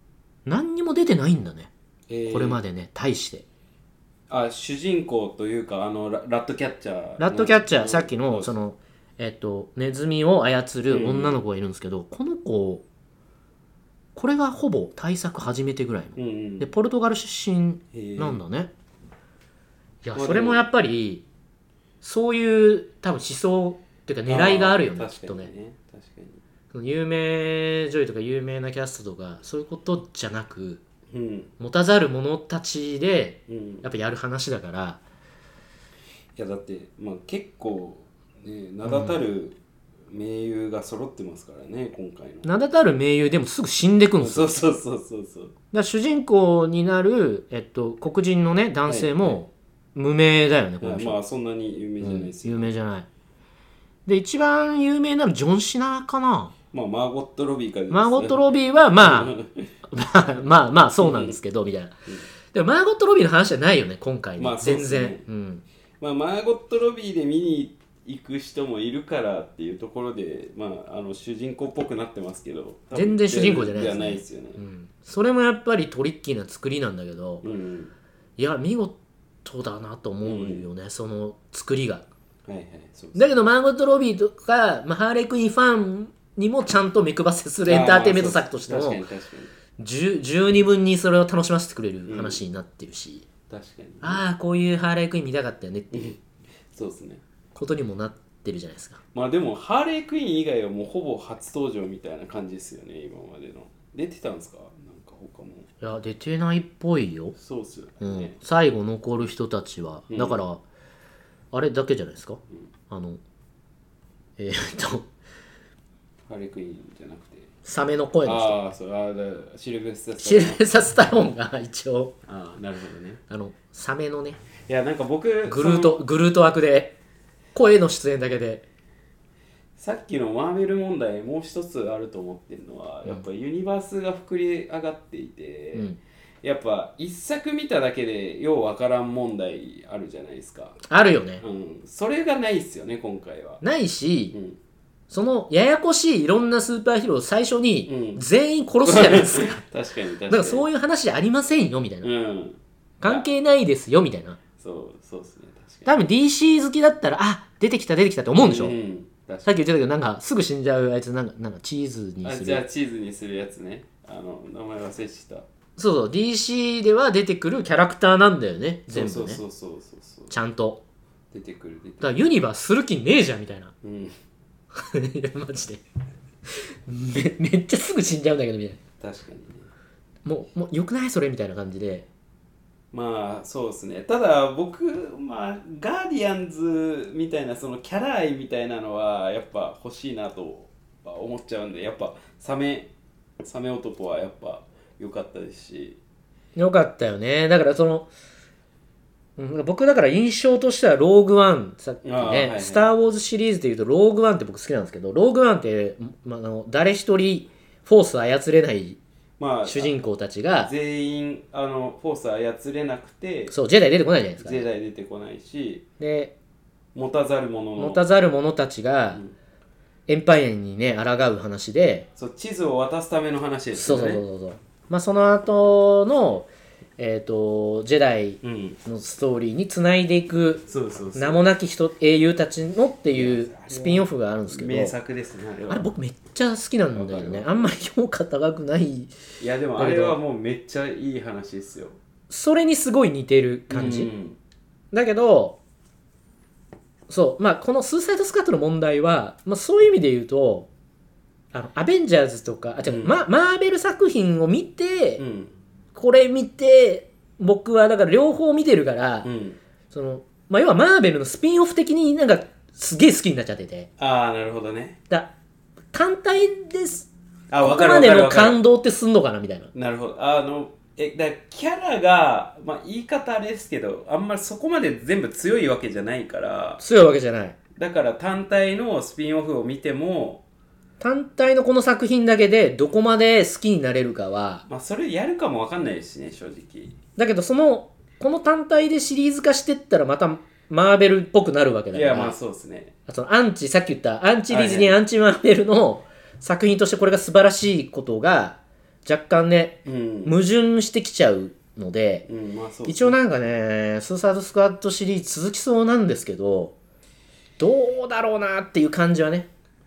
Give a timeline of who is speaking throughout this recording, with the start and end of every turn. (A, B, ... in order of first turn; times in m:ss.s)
0:00.5-0:01.7 A
0:02.1-0:02.6 B
0:02.3-0:03.4 A
0:04.3-0:08.6 B
0:07.2-0:12.8 A
0:10.9-0:11.4 B
0:14.2-0:18.7 A
0:16.2-0:16.7 B
0:17.9-0:18.4 B
0:20.0-0:21.2 A
0:20.1-0:20.6 B
0:22.0-0:25.5 A
0:24.3-0:26.4 B
0:26.7-0:30.8 A
0:31.1-0:31.5 B
0:31.6-0:35.0 A
0:33.5-0:33.9 B
0:36.4-0:39.6 B
0:38.8-0:39.2 A
0:40.1-0:42.5 B
0:42.4-0:44.6 A
0:44.2-0:45.5 B
0:45.7-0:51.2 A
0:48.9-0:49.4 B
0:50.8-0:52.7 B
0:52.0-0:53.1 A
0:54.1-0:56.5 A
0:56.7-0:58.4 B
0:57.9-0:59.4 A
0:59.0-0:59.7 B
0:59.9-1:02.0 A
1:01.0-1:01.4 B
1:02.5-1:05.6 A
1:04.4-1:05.2 B
1:06.0-1:14.6 B
1:12.9-1:17.4 A
1:17.4-1:17.9 B
1:18.4-1:22.1 A
1:20.2-1:20.7 B
1:22.5-1:23.4 B
1:23.2-1:29.0 A
1:27.6-1:29.5 B
1:29.8-1:33.3 A
1:32.1-1:32.4 B
1:33.5-1:34.2 B
1:34.0-1:36.2 A
1:35.9-1:36.2 B
1:36.7-1:37.2 B
1:37.6-1:39.0 A
1:39.1-1:45.7 B
1:45.8-1:47.4 A
1:47.4-1:48.4 B
1:48.0-1:50.6 A
1:50.1-1:50.4 B
1:51.5-1:53.2 A
1:54.4-1:55.1 A
1:56.3-1:57.5 B
1:57.6-1:58.6 A
1:58.2-2:00.6 B
2:00.2-2:02.2 A
2:02.3-2:03.2 B
2:03.3-2:04.4 A
2:04.7-2:06.0 B
2:05.5-2:07.0 A
2:07.5-2:08.6 A
2:09.8-2:15.9 B
2:15.7-2:16.0 A
2:16.4-2:20.8 B
2:20.9-2:21.4 A
2:21.4-2:23.6 B
2:23.6-2:24.4 A
2:24.3-2:24.6 B
2:25.1-2:29.6 A
2:27.9-2:28.2 B
2:28.8-2:30.7 B
2:30.3-2:32.1 A
2:32.0-2:33.3 B
2:33.0-2:34.4 A
2:34.6-2:35.9 B
2:35.9-2:38.8 A
2:38.3-2:39.6 B
2:39.4-2:42.6 A
2:42.2-2:45.5 B
2:45.8-2:49.4 A
2:48.9-2:50.3 B
2:50.3-2:50.8 A
2:51.3-2:52.2 B
2:52.0-2:53.7 A
2:53.8-2:54.2 B
2:54.7-2:55.8 A
2:56.5-2:58.8 A
2:59.0-2:59.7 B
3:00.2-3:02.1 A
3:02.9-3:16.0 B
3:16.6-3:18.1 A
3:19.4-3:29.0 A
3:22.0-3:22.9 B
3:29.4-3:30.0 B
3:29.6-3:30.7 A
3:30.6-3:33.5 B
3:33.5-3:34.7 A
3:34.4-3:35.9 B
3:36.0-3:36.3 A
3:37.0-3:38.0 B
3:37.8-3:39.2 A
3:40.1-3:42.1 A
3:42.2-3:44.2 B
3:43.7-3:50.6 A
3:48.4-3:48.8 B
3:50.7-3:51.5 B
3:51.2-3:55.0 A
3:53.1-3:55.9 B
3:55.7-3:59.2 A
3:56.9-3:57.7 B
3:59.4-4:02.0 B
3:59.8-4:00.2 A
4:02.3-4:04.1 A
4:03.7-4:04.4 B
4:04.9-4:05.6 A
4:07.1-4:10.7 A
4:11.5-4:15.2 A
4:12.8-4:13.1 B
4:15.2-4:15.5 B
4:16.0-4:19.3 A
4:19.2-4:19.6 B
4:19.9-4:23.9 A
4:24.0-4:25.0 B
4:25.9-4:29.7 A
4:27.5-4:28.6 B
4:29.7-4:36.8 B
4:36.8-4:37.6 A
4:37.8-4:40.4 B
4:41.0-4:44.6 A
4:44.7-4:47.0 B
4:47.2-4:52.4 A
4:51.9-4:52.9 B
4:53.1-5:02.3 A
4:54.5-4:55.0 B
4:59.8-5:00.4 B
5:02.3-5:03.2 B
5:02.9-5:06.8 A
5:07.6-5:09.5 A